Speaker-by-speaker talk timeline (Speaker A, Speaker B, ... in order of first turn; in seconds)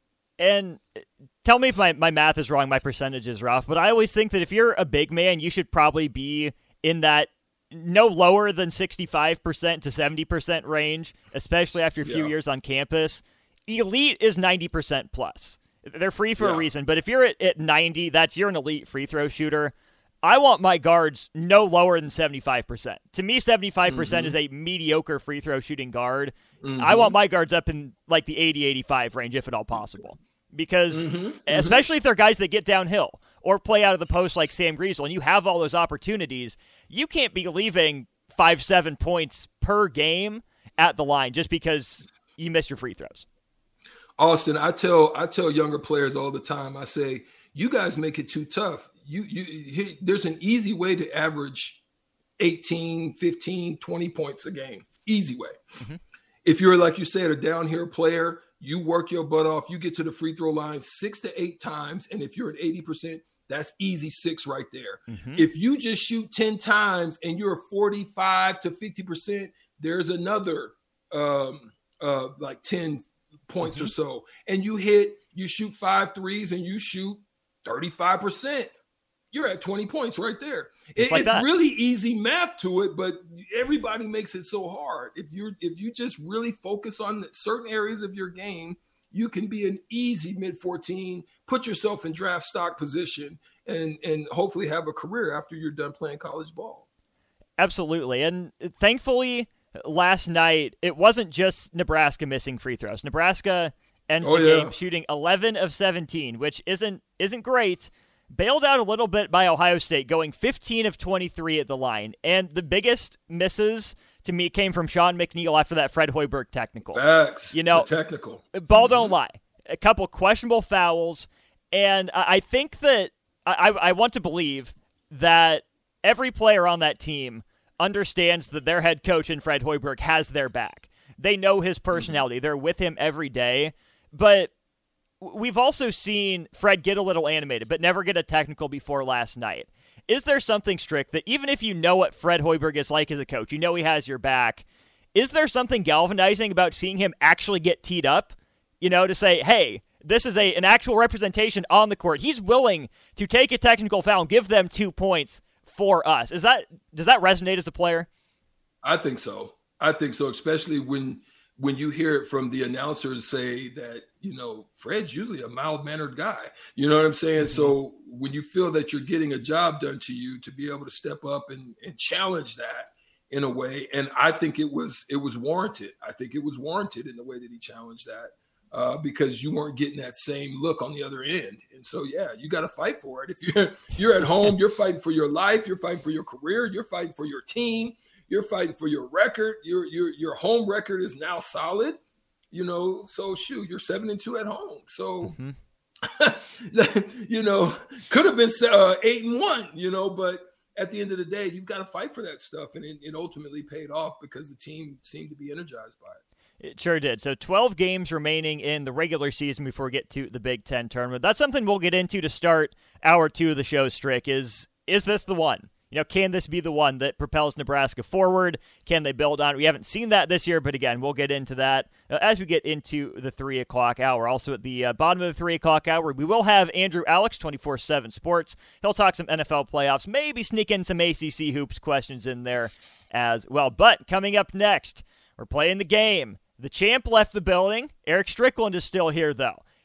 Speaker A: 0.4-43.3, 65.1-65.5, 73.6-73.9, 81.0-81.5, 97.6-117.9, 118.5-134.5, 135.2-158.1, 167.4-167.7, 195.2-195.6, 206.6-239.6
Speaker B: 12.0-12.3, 16.4-16.7, 23.9-24.4, 26.6-27.2, 30.9-31.8, 44.2-51.8, 52.4-55.6, 56.4-78.7, 79.3-96.8, 104.2-104.7, 116.9-119.1, 158.8-192.0, 192.5-195.4, 196.0-206.2